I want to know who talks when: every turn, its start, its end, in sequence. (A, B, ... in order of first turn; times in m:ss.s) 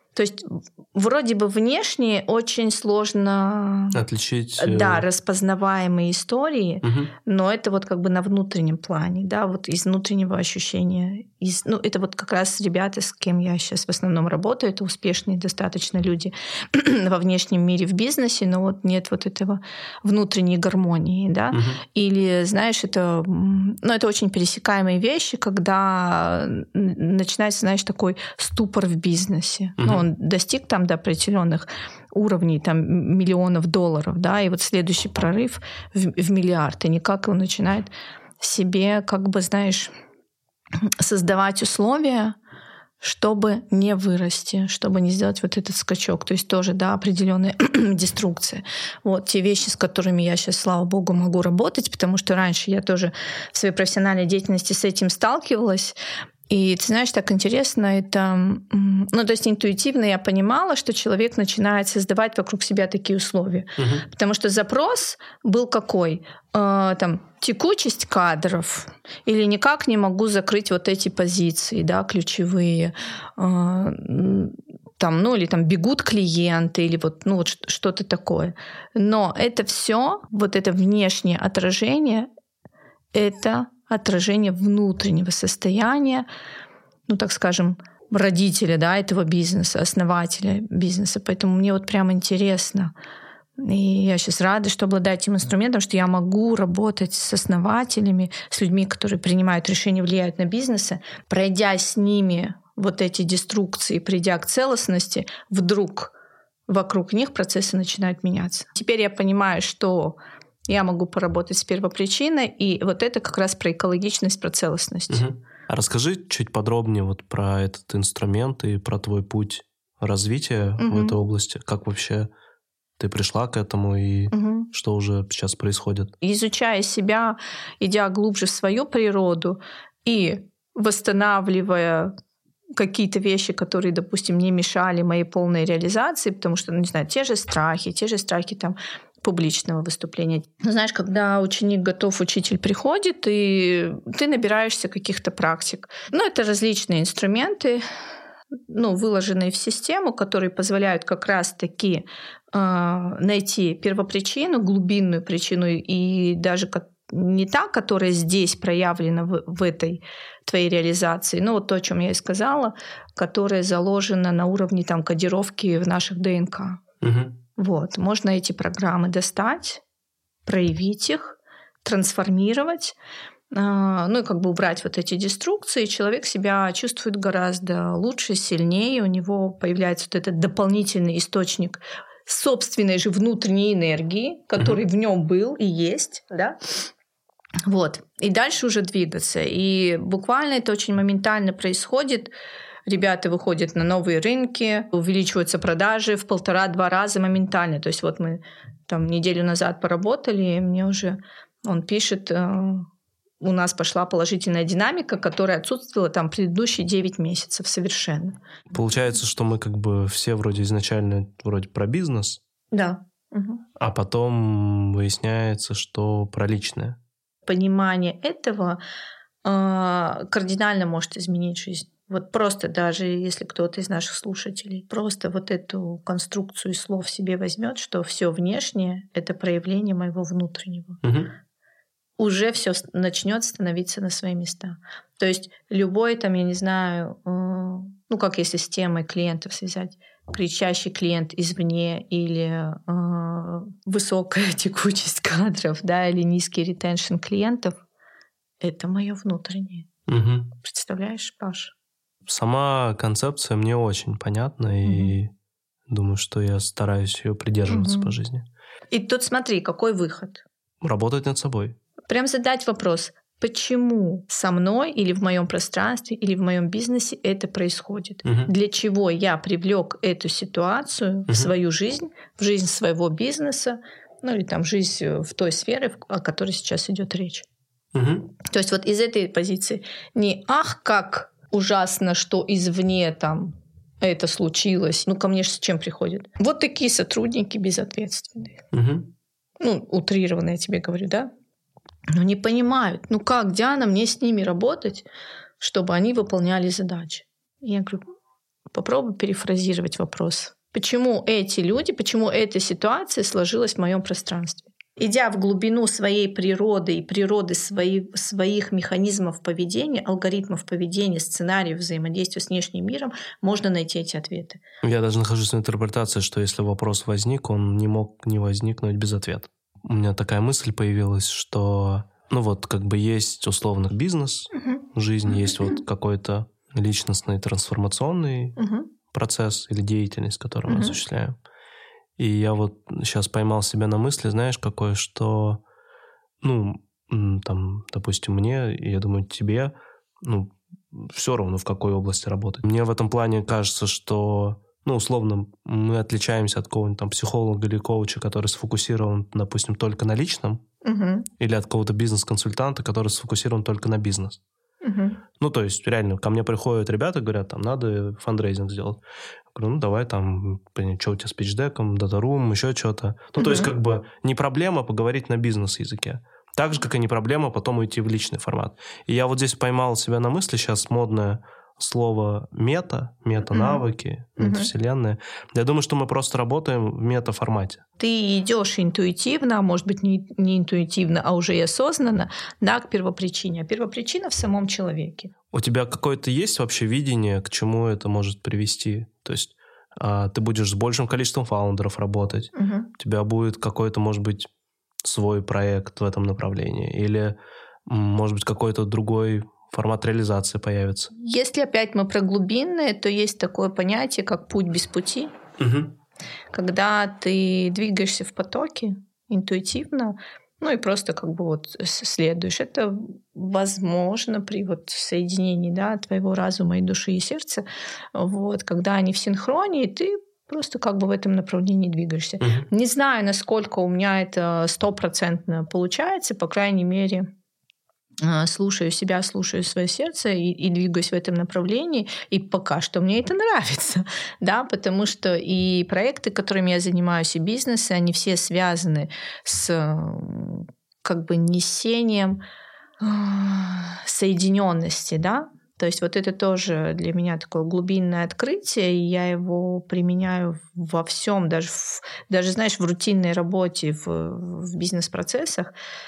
0:00.1-0:04.0 A
0:03.9-0:05.0 B
0:04.6-0:39.9 A
0:06.8-0:07.1 B
0:21.5-0:21.8 B
0:29.8-0:30.0 B
0:41.0-0:42.4 A
0:43.0-0:56.0 A
0:56.5-1:22.3 A
1:03.8-1:04.0 B
1:23.1-1:26.2 A
1:27.1-1:32.9 A
1:33.6-1:46.1 A
1:46.7-1:50.2 A
1:50.7-1:55.2 A
1:55.1-2:02.3 B
2:00.8-2:01.2 A
2:03.0-2:06.1 B
2:04.3-2:04.7 A
2:06.2-2:12.1 A
2:12.8-2:27.8 A
2:28.7-2:46.8 A
2:47.0-2:47.3 B
2:47.6-2:49.8 A
2:50.4-2:52.9 A
2:53.5-3:06.6 A
3:07.7-3:12.3 A
3:12.9-3:22.9 A
3:23.4-3:28.4 A
3:28.7-3:32.4 B
3:32.7-3:33.6 A
3:33.8-3:37.0 B
3:37.4-3:38.8 A
3:39.4-3:51.0 A
3:51.0-3:51.3 B
3:52.2-4:07.8 A
4:08.6-4:09.9 A
4:10.1-4:10.5 B
4:10.6-4:11.7 A
4:12.3-4:15.3 B
4:14.8-4:15.1 A
4:15.9-4:18.4 B
4:17.7-4:18.1 A
4:18.9-4:20.4 A
4:20.8-4:21.8 B
4:22.1-4:37.4 A
4:31.3-4:31.5 B
4:37.9-4:38.3 B
4:38.4-4:48.6 A
4:48.7-4:49.1 B
4:49.6-4:51.3 A
4:52.1-4:55.0 A
4:55.6-4:58.0 A
4:58.7-5:14.6 A
5:14.8-5:28.6 B
5:24.5-5:24.8 A
5:25.4-5:25.7 A
5:28.6-5:28.9 A
5:29.1-5:31.3 B
5:30.7-5:31.0 A
5:32.2-5:35.6 B
5:36.4-5:50.6 B
5:50.8-5:51.3 A
5:51.4-5:54.4 B
5:54.8-5:55.2 A
5:55.4-6:17.8 B
6:03.4-6:03.7 A
6:13.5-6:13.8 A
6:14.4-6:14.7 A
6:18.0-6:25.3 A
6:25.5-6:34.5 B
6:32.5-6:32.9 A
6:35.0-6:37.3 B
6:37.9-6:41.1 B
6:41.1-6:45.3 A
6:45.6-6:45.9 B
6:46.5-7:07.2 A
7:02.4-7:02.7 B
7:08.2-7:22.4 A
7:23.0-7:35.7 A